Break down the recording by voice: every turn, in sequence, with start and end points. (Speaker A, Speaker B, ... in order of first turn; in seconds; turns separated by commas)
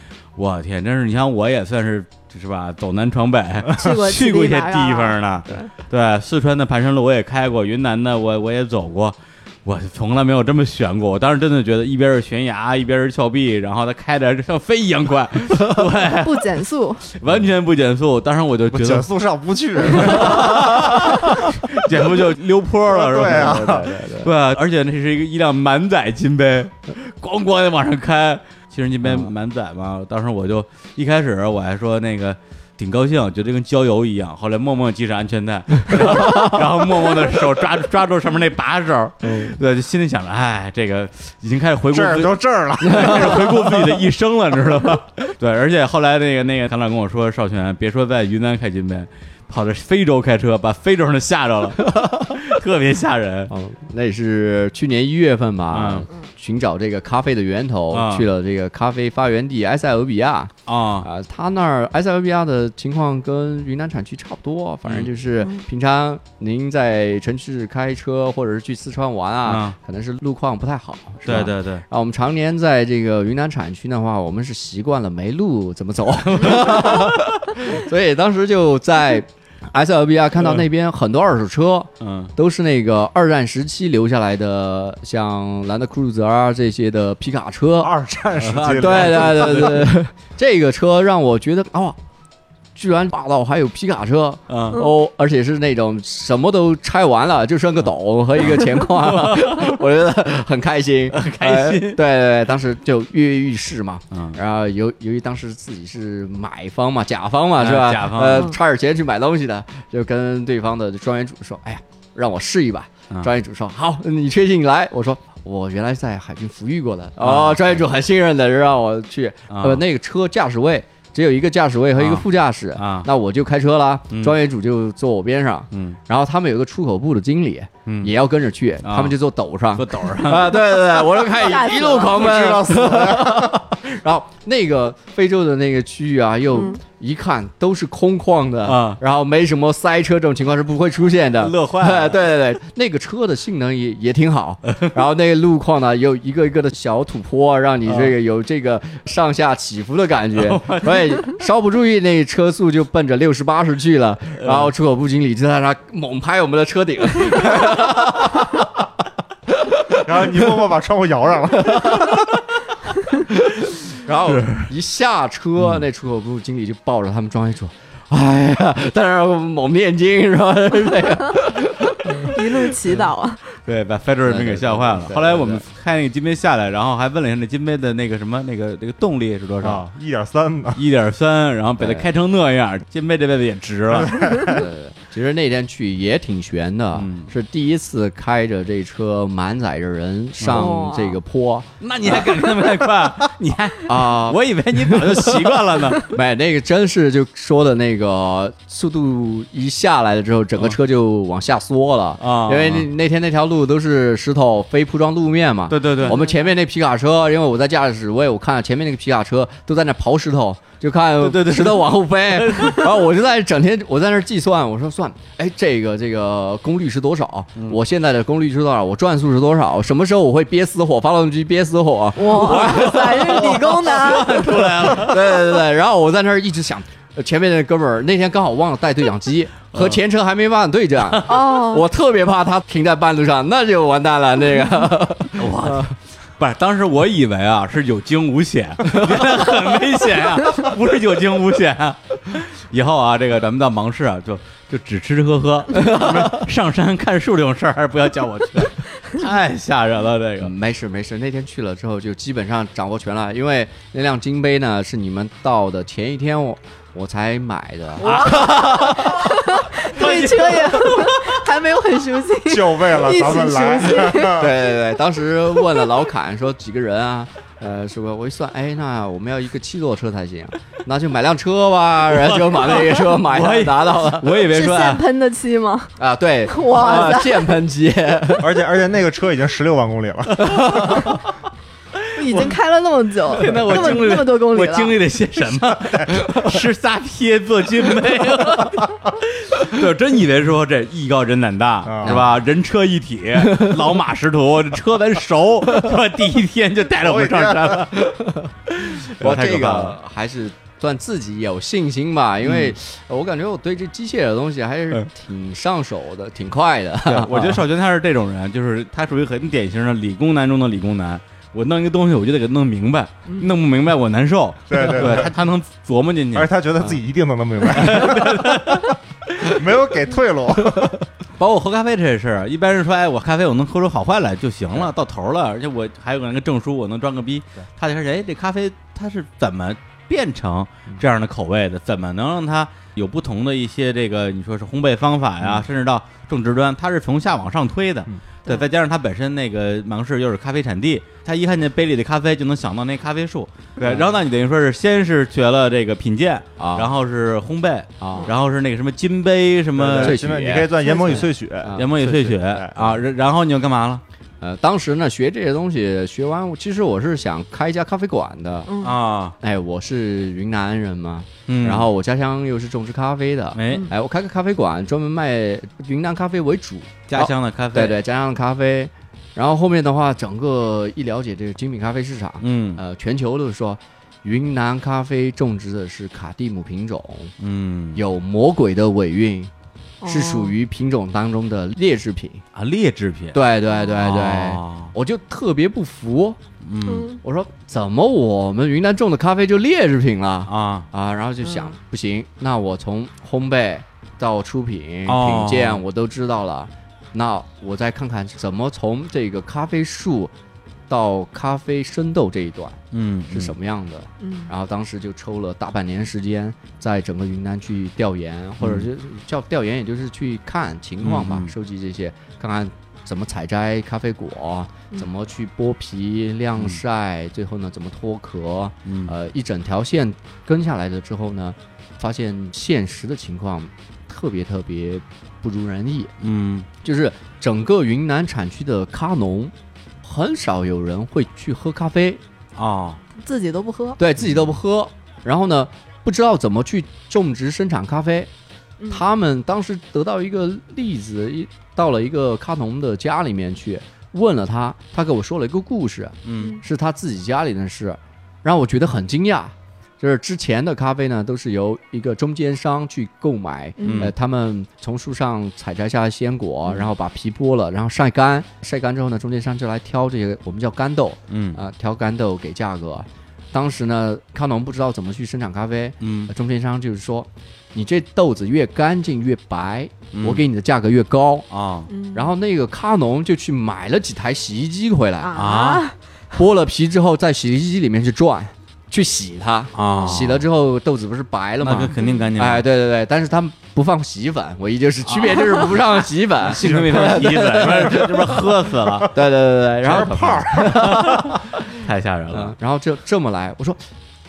Speaker A: 0.4-16.6, Speaker B: 3.7-5.7, Speaker B: 16.1-17.1, Speaker A: 17.1-19.1, Speaker C: 18.7-21.2, Speaker A: 19.9-53.5, Speaker C: 22.9-23.9, Speaker D: 23.2-24.3, Speaker D: 29.0-29.3, Speaker D: 36.2-36.5, Speaker D: 39.2-39.6, Speaker C: 41.9-43.6, Speaker D: 42.9-43.1, Speaker D: 53.5-87.9, Speaker A: 55.7-56.1, Speaker A: 57.9-58.3, Speaker A: 60.7-61.1, Speaker A: 69.5-69.8, Speaker A: 71.2-71.8, Speaker A: 76.3-77.4, Speaker A: 80.4-80.7, Speaker A: 82.0-82.3, Speaker C: 87.8-89.8, Speaker A: 88.4-89.9, Speaker D: 88.8-92.0, Speaker D: 92.8-158.6, Speaker A: 94.5-94.8, Speaker A: 98.4-99.8, Speaker A: 101.1-102.0, Speaker A: 104.1-104.4, Speaker A: 107.6-108.5, Speaker A: 117.2-117.9, Speaker A: 119.5-119.8, Speaker A: 122.0-122.2, Speaker A: 122.8-123.1, Speaker A: 124.1-124.4, Speaker A: 125.7-126.0, Speaker A: 127.9-128.1, Speaker A: 128.8-129.2, Speaker A: 129.7-130.7, Speaker B: 131.3-132.3, Speaker C: 132.0-133.6, Speaker B: 136.5-136.8, Speaker A: 138.7-139.0, Speaker A: 141.4-142.2, Speaker A: 147.9-148.1, Speaker A: 150.3-151.3, Speaker A: 154.4-154.7, Speaker C: 160.1-162.3, Speaker D: 163.9-172.3, Speaker A: 164.3-164.7, Speaker A: 165.6-165.8, Speaker B: 172.3-173.4, Speaker A: 173.6-179.9, Speaker D: 174.2-175.7, Speaker C: 179.6-180.8, Speaker A: 180.8-184.6, Speaker D: 181.8-182.1, Speaker C: 183.9-184.6, Speaker D: 184.4-192.2, Speaker A: 186.9-187.3, Speaker B: 190.5-191.2, Speaker A: 191.8-196.1, Speaker D: 193.9-235.9, Speaker A: 202.2-202.9, Speaker A: 205.7-206.2, Speaker B: 206.0-206.5, Speaker A: 211.2-212.9, Speaker B: 222.2-225.0, Speaker A: 222.3-225.4, Speaker A: 229.7-230.0, Speaker B: 231.3-231.9, Speaker A: 235.4-250.5, Speaker D: 245.7-246.4, Speaker D: 250.4-258.1, Speaker B: 258.0-264.4, Speaker A: 258.0-261.4, Speaker C: 262.5-264.5, Speaker D: 264.3-274.5, Speaker A: 272.1-275.1, Speaker B: 274.5-275.9, Speaker D: 276.0-278.5, Speaker B: 276.4-277.6, Speaker C: 278.4-280.9, Speaker D: 280.4-281.0, Speaker A: 280.5-281.2, Speaker B: 282.1-285.0, Speaker A: 282.2-282.5, Speaker A: 283.3-298.2, Speaker C: 285.4-286.2, Speaker C: 291.9-292.2, Speaker D: 292.0-292.4, Speaker C: 297.0-297.9, Speaker D: 298.2-298.4, Speaker A: 298.7-300.0, Speaker D: 299.1-307.6, Speaker A: 302.4-302.8, Speaker A: 307.1-316.6, Speaker C: 314.7-315.4, Speaker C: 316.3-320.9, Speaker A: 317.7-318.9, Speaker A: 321.4-350.2, Speaker D: 343.8-344.1, Speaker D: 346.6-346.9, Speaker D: 348.0-348.3, Speaker C: 349.8-353.0, Speaker D: 350.0-351.9, Speaker B: 350.8-351.2, Speaker A: 351.8-354.0, Speaker D: 354.4-358.7, Speaker B: 358.7-359.0, Speaker A: 358.8-359.4, Speaker D: 359.4-377.3, Speaker A: 361.5-361.9, Speaker A: 363.6-363.9, Speaker A: 367.1-368.0, Speaker A: 372.4-372.8, Speaker A: 377.4-378.0, Speaker D: 377.9-379.5, Speaker B: 380.0-380.6, Speaker D: 380.0-382.4, Speaker A: 382.6-383.4, Speaker D: 383.3-386.4, Speaker A: 384.0-384.9, Speaker A: 386.6-387.1, Speaker B: 386.8-387.2, Speaker D: 387.2-400.3, Speaker A: 390.5-390.9, Speaker B: 391.4-391.8, Speaker A: 395.1-395.8, Speaker D: 400.9-426.1, Speaker A: 402.9-403.6, Speaker B: 404.2-404.5, Speaker A: 408.6-408.9, Speaker A: 411.0-411.5, Speaker A: 418.9-419.1, Speaker A: 426.2-426.7, Speaker D: 426.8-432.2, Speaker A: 432.6-433.0, Speaker B: 433.2-434.0, Speaker D: 434.0-438.3, Speaker B: 438.8-439.1, Speaker D: 438.9-471.5, Speaker A: 446.2-446.6, Speaker B: 446.4-446.6, Speaker B: 453.8-454.1, Speaker A: 453.8-454.1, Speaker B: 456.6-456.9, Speaker A: 461.3-461.6, Speaker A: 466.0-466.3, Speaker A: 470.1-470.4, Speaker A: 471.5-471.9, Speaker B: 471.9-472.3, Speaker D: 472.1-475.3, Speaker B: 475.2-476.0, Speaker A: 475.3-475.9, Speaker D: 476.3-488.4, Speaker A: 479.7-480.4, Speaker B: 479.9-480.2, Speaker A: 481.6-482.7, Speaker B: 482.0-482.3, Speaker A: 485.1-485.8, Speaker A: 486.4-489.2, Speaker C: 486.5-487.9, Speaker D: 489.1-491.4, Speaker A: 489.8-492.6, Speaker C: 489.9-491.2, Speaker D: 492.3-493.8